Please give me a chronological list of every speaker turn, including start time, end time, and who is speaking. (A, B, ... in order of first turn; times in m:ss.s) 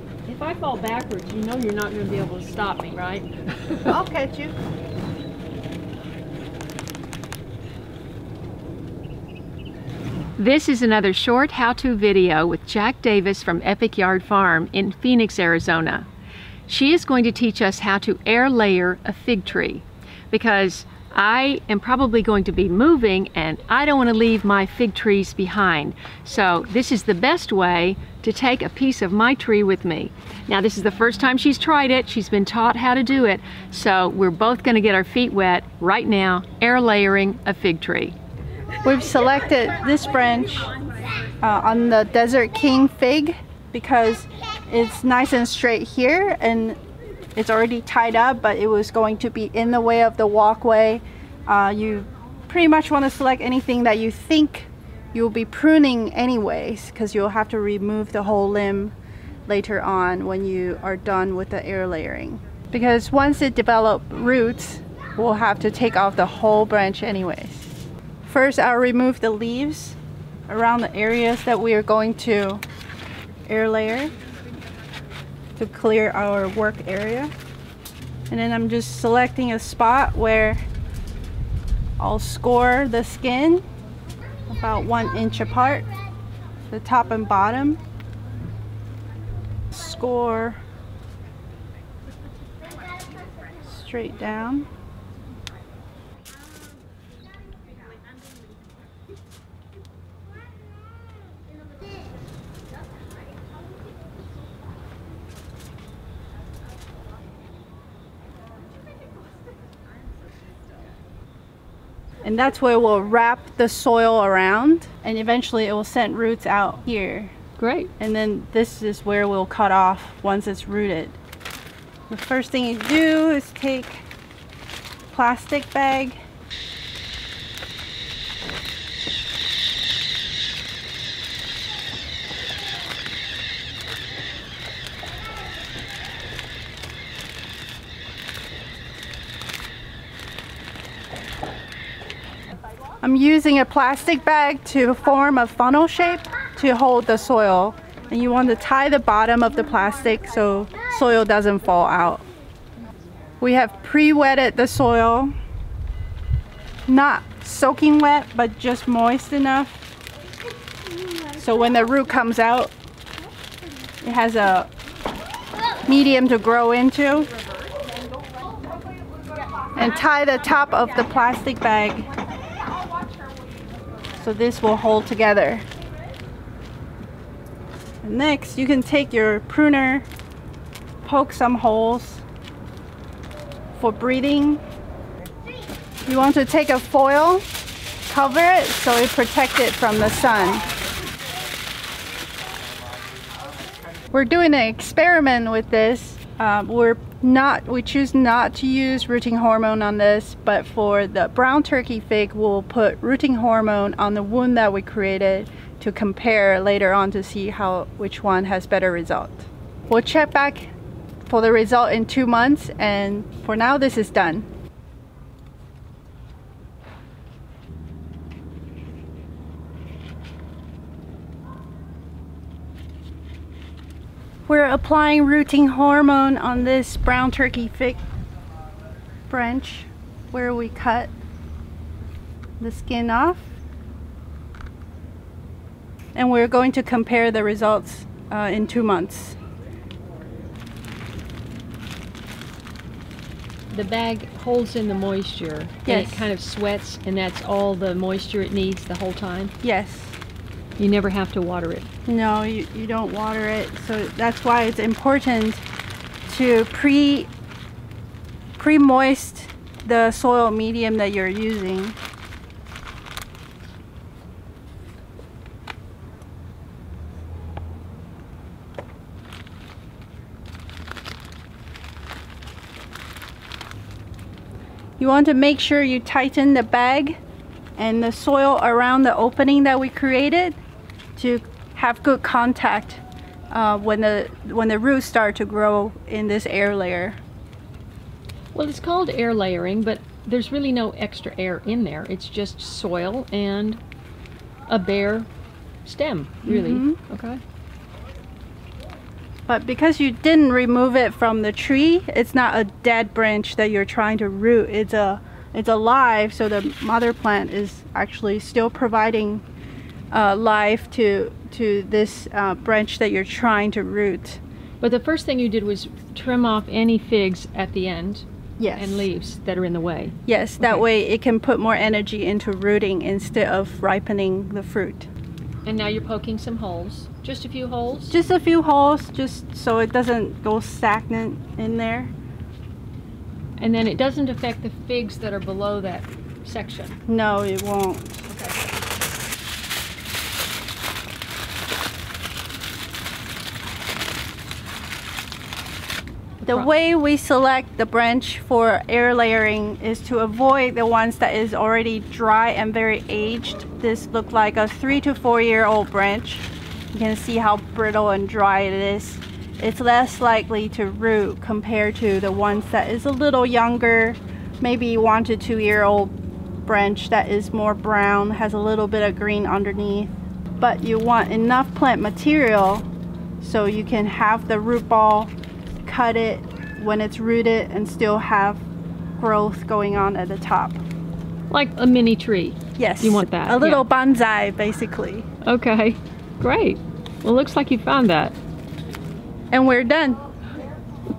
0:00.3-0:04.0 A
0:03.9-0:04.5 B
0:10.4-0:16.1 A
0:16.7-0:38.2 A
0:38.8-0:40.8 B
0:41.4-0:46.8 B
0:47.4-0:58.9 B
0:59.5-1:07.7 B
1:08.3-1:12.6 B
1:13.5-1:14.1 B
1:15.6-1:17.3 B
1:18.3-1:20.6 B
1:22.0-1:23.6 B
1:24.5-1:25.9 B
1:26.7-1:27.8 B
1:29.7-1:30.6 B
1:33.6-1:34.7 B
1:52.2-1:57.3 B
1:57.6-1:57.9 A
1:58.0-2:01.2 B
2:02.1-2:04.0 B
2:05.1-2:06.2 B
2:23.0-2:32.2 B
2:33.4-2:35.3 B
2:36.9-2:39.8 B
2:41.3-2:42.7 B
2:44.0-2:44.7 B
2:45.9-2:47.3 B
2:49.8-2:52.1 B
2:54.2-2:55.7 B
2:58.0-3:00.1 B
3:01.0-3:02.2 B
3:03.8-3:04.6 B
3:06.1-3:07.4 B
3:08.1-3:10.6 B
3:14.1-3:30.7 B
3:31.3-3:34.5 B
3:44.5-3:48.0 B
3:49.3-3:51.1 B
3:52.6-3:53.5 B
3:56.2-3:59.4 B
4:03.7-4:09.5 A
4:05.9-4:06.3 B
4:09.6-4:10.2 B
4:10.8-4:11.9 A
4:12.1-4:15.6 B
4:16.3-4:17.3 B
4:18.6-4:22.0 B
4:35.0-4:37.2 B
4:37.8-4:40.6 B
4:41.2-4:47.2 B
4:48.5-4:53.8 A
4:54.7-4:55.3 A
4:55.8-4:57.4 A
4:56.4-4:57.0 B
4:59.5-5:09.4 B
5:10.1-5:14.4 B
5:14.8-5:20.8 A
5:18.6-5:19.1 B
5:20.3-5:25.1 B
5:25.6-5:28.2 A
5:28.1-5:32.1 B
5:33.6-5:37.0 A
5:37.1-5:38.3 B
5:38.3-5:38.6 A
5:46.4-5:46.7 A
5:46.5-6:12.9 B
6:13.4-6:15.3 B
6:15.8-6:18.6 B
6:19.2-6:20.8 B
6:21.5-6:23.9 A
6:22.8-6:25.3 B
6:25.4-6:28.4 A
6:29.5-6:30.2 B